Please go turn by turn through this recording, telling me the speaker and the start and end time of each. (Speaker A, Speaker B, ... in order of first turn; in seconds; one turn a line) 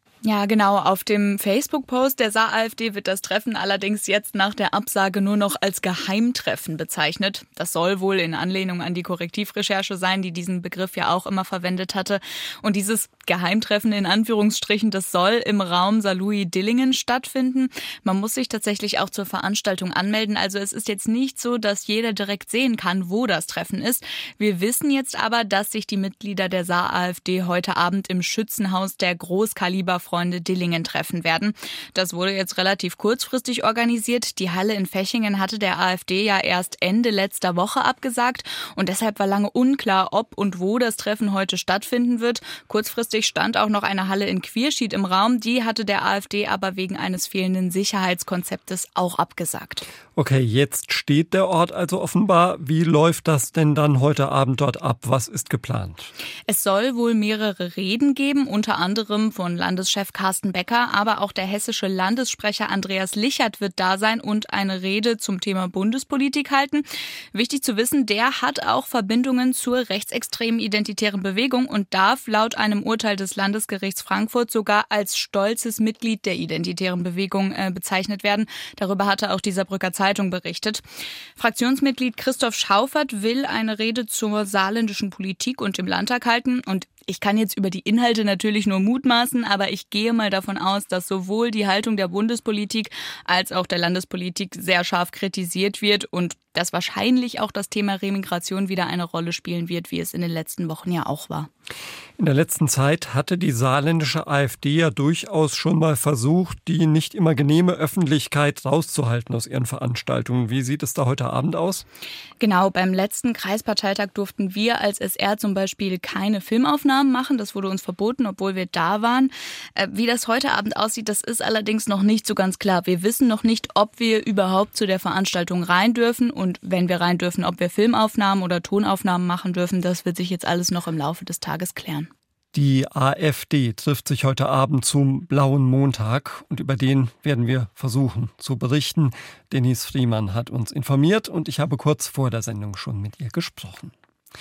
Speaker A: 0.2-49.9
Speaker B: 50.1-56.1
Speaker A: 56.5-80.8
Speaker A: 81.4-101.5
Speaker B: 102.2-111.8
Speaker A: 112.4-132.1
Speaker B: 132.5-143.9